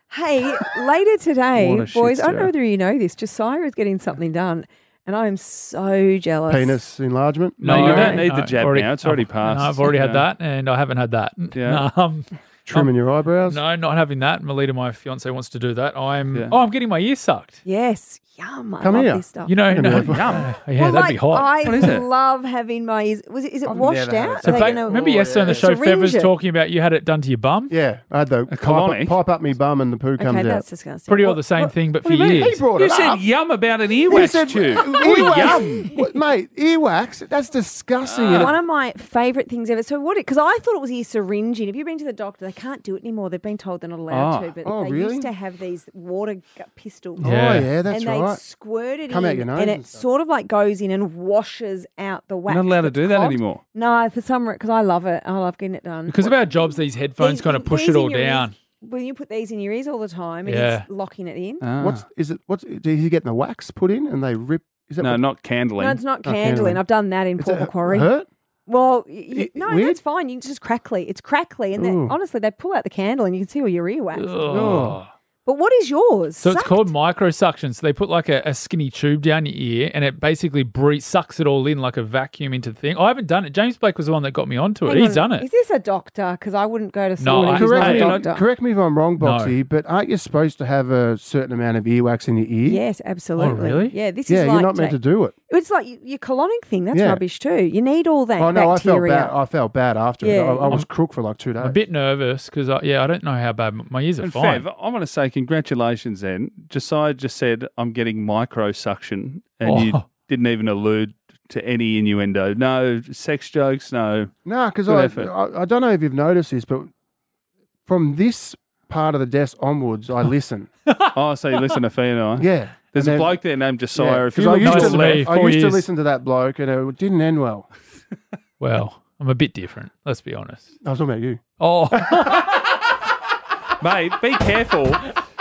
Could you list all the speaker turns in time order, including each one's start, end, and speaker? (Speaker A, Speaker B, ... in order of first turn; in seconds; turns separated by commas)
Speaker A: 0.1-6.8, Speaker B: 1.6-2.5, Speaker C: 6.5-8.2, Speaker B: 7.6-10.2, Speaker D: 7.6-12.9, Speaker A: 7.8-8.2, Speaker B: 11.5-11.8, Speaker C: 12.7-13.6, Speaker D: 13.5-17.6, Speaker A: 17.6-19.5, Speaker C: 18.8-20.4, Speaker D: 19.5-21.9, Speaker B: 19.9-20.4, Speaker A: 20.8-26.3, Speaker B: 21.7-22.0, Speaker C: 23.6-25.7, Speaker D: 24.4-27.7, Speaker C: 27.7-30.6, Speaker B: 28.5-29.2, Speaker A: 30.2-31.7, Speaker D: 31.1-32.6, Speaker C: 32.0-33.2, Speaker B: 32.8-35.7, Speaker C: 34.1-38.5, Speaker A: 35.0-36.1, Speaker D: 35.0-35.5, Speaker B: 38.0-38.5, Speaker A: 38.4-47.3, Speaker B: 44.1-44.5, Speaker C: 44.6-45.3, Speaker C: 47.2-48.4, Speaker D: 47.3-47.6, Speaker A: 47.9-61.6, Speaker C: 49.1-50.0, Speaker B: 52.5-53.6, Speaker D: 56.1-58.5, Speaker D: 60.5-60.9, Speaker B: 61.6-62.0, Speaker C: 61.8-65.2, Speaker B: 65.0-66.0, Speaker A: 65.8-68.1, Speaker C: 66.2-66.8, Speaker C: 67.4-68.3, Speaker A: 68.7-74.8, Speaker C: 69.3-70.0, Speaker C: 71.8-72.2, Speaker D: 74.2-75.0, Speaker C: 74.5-75.0, Speaker B: 74.5-74.9, Speaker A: 75.5-76.9, Speaker D: 76.4-85.5, Speaker A: 84.8-88.4, Speaker D: 87.2-88.1, Speaker C: 87.4-92.8, Speaker B: 87.9-88.2, Speaker D: 89.2-89.5, Speaker A: 92.7-95.0, Speaker D: 93.4-94.0, Speaker C: 94.3-95.3, Speaker A: 95.5-99.3, Speaker C: 96.9-97.2, Speaker C: 98.4-101.8, Speaker A: 100.2-100.8, Speaker D: 101.6-104.7, Speaker B: 104.2-114.3, Speaker D: 109.6-110.1, Speaker C: 114.5-116.9, Speaker B: 114.9-115.3, Speaker C: 117.9-120.7, Speaker B: 121.1-125.3, Speaker C: 122.4-123.4, Speaker C: 123.9-127.7, Speaker D: 124.6-125.8, Speaker D: 128.6-130.7, Speaker C: 130.8-131.4, Speaker D: 131.6-132.5, Speaker B: 133.8-135.1